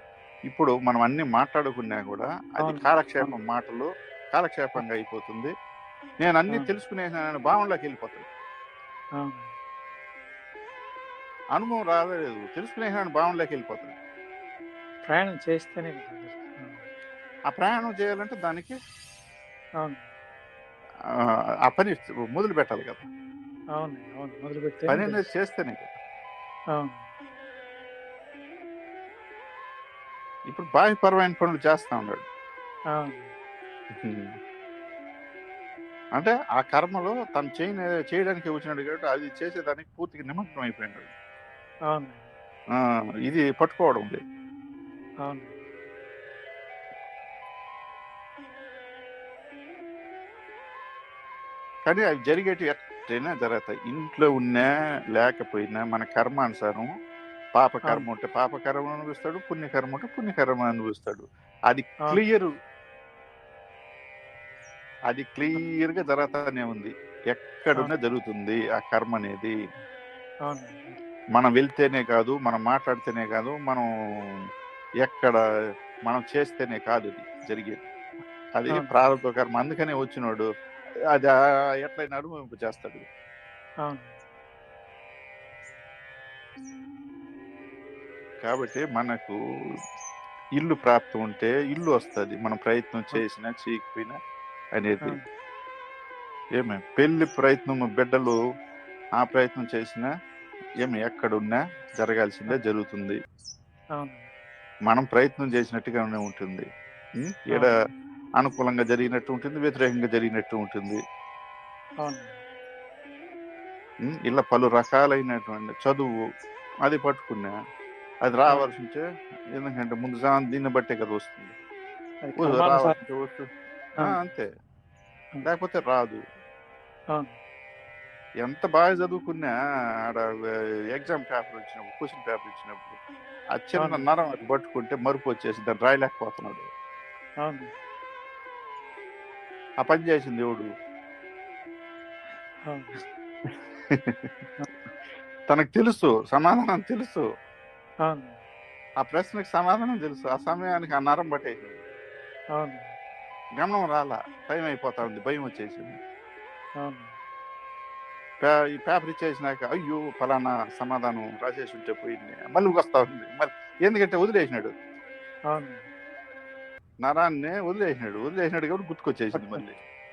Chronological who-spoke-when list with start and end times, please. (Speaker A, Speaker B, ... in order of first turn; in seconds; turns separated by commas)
Speaker A: 0.5-5.5, Speaker B: 2.6-3.3, Speaker A: 6.2-8.3, Speaker B: 6.5-6.8, Speaker B: 9.2-9.5, Speaker A: 11.6-13.9, Speaker B: 15.1-16.8, Speaker A: 17.5-18.7, Speaker A: 21.7-23.1, Speaker B: 23.8-25.2, Speaker A: 24.9-25.9, Speaker B: 26.7-27.0, Speaker A: 30.5-32.2, Speaker B: 32.9-33.3, Speaker A: 34.0-34.3, Speaker A: 36.2-41.1, Speaker B: 41.9-42.3, Speaker A: 43.3-44.2, Speaker B: 45.2-45.5, Speaker A: 51.9-56.9, Speaker A: 57.6-62.5, Speaker A: 65.1-69.5, Speaker B: 70.5-71.0, Speaker A: 71.3-73.8, Speaker A: 75.0-75.3, Speaker A: 76.1-77.8, Speaker A: 78.6-80.5, Speaker A: 81.8-83.0, Speaker B: 83.8-84.1, Speaker A: 88.4-89.3, Speaker A: 90.6-94.2, Speaker A: 94.8-95.2, Speaker A: 96.6-98.4, Speaker A: 99.2-100.1, Speaker A: 100.8-103.2, Speaker B: 104.0-104.3, Speaker A: 104.9-106.7, Speaker A: 107.2-107.7, Speaker A: 108.4-111.0, Speaker B: 112.0-112.3, Speaker A: 114.1-116.1, Speaker A: 116.8-117.5, Speaker A: 118.2-119.0, Speaker A: 119.6-121.5, Speaker B: 122.2-122.9, Speaker A: 122.4-123.4, Speaker A: 124.0-124.5, Speaker A: 125.4-126.2, Speaker A: 128.4-129.5, Speaker A: 130.9-133.0, Speaker A: 133.6-136.7, Speaker B: 133.8-134.0, Speaker B: 137.4-137.7, Speaker A: 139.8-140.7, Speaker B: 142.7-143.0, Speaker A: 143.9-144.2, Speaker A: 145.5-147.2, Speaker B: 148.0-148.3, Speaker A: 149.0-151.8, Speaker B: 152.6-152.9, Speaker A: 153.6-156.0, Speaker B: 156.8-157.1, Speaker A: 158.4-164.7, Speaker B: 165.5-165.8, Speaker A: 167.0-169.8, Speaker B: 169.3-169.6